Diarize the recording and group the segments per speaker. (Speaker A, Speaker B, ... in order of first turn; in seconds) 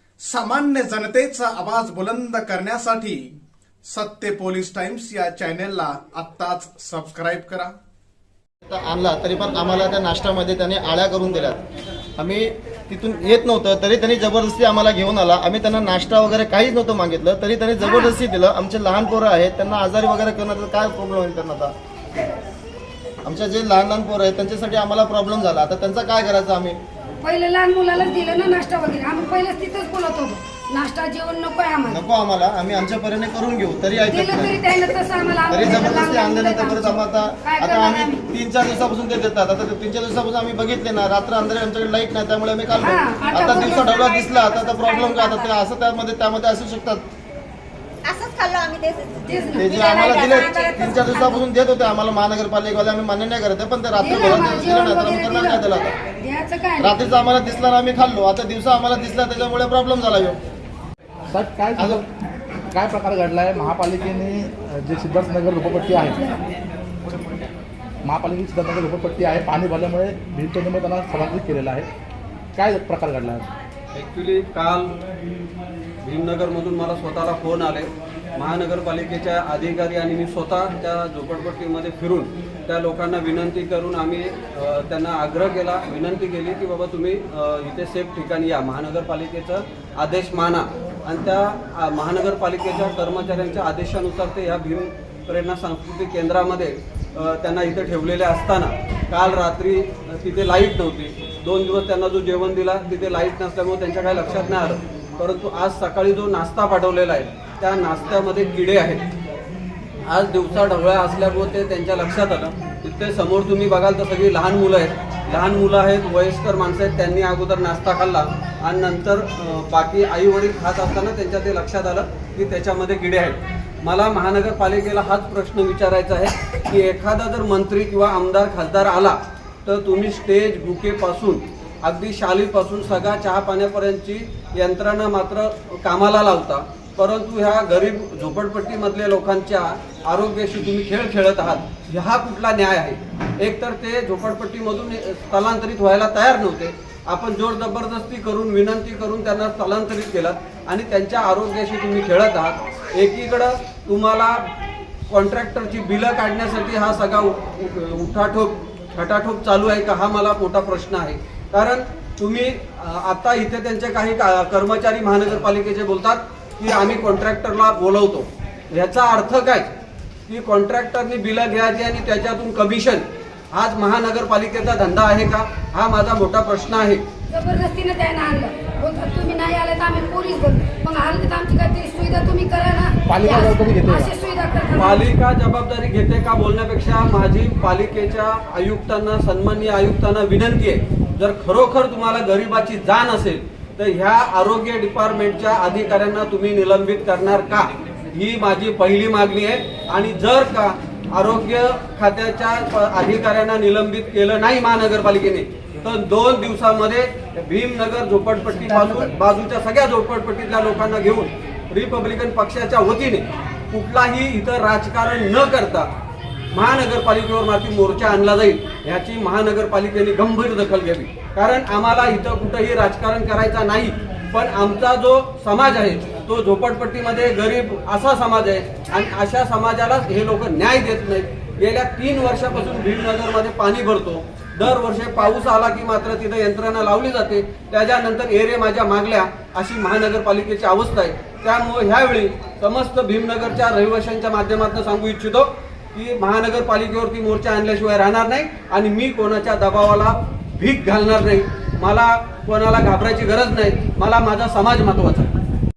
Speaker A: 0.2-3.3, 3.9-7.7
Speaker B: 8.7-11.6, 12.2-21.7, 23.2-26.8, 31.9-34.6, 35.5-47.0, 49.5-55.9, 56.8-60.4, 61.8-62.0
Speaker C: 17.8-18.1, 27.2-32.0, 34.0-38.2, 42.8-45.5, 49.3-51.4, 54.0-57.0, 177.3-185.1
Speaker D: 48.0-50.8
Speaker E: 61.3-62.0, 62.7-66.3, 68.0-71.9, 72.5-73.5, 183.1-184.1
Speaker F: 73.9-75.0, 76.0-109.0, 110.1-154.4, 155.1-169.7, 170.3-177.0, 184.8-215.9, 216.5-255.3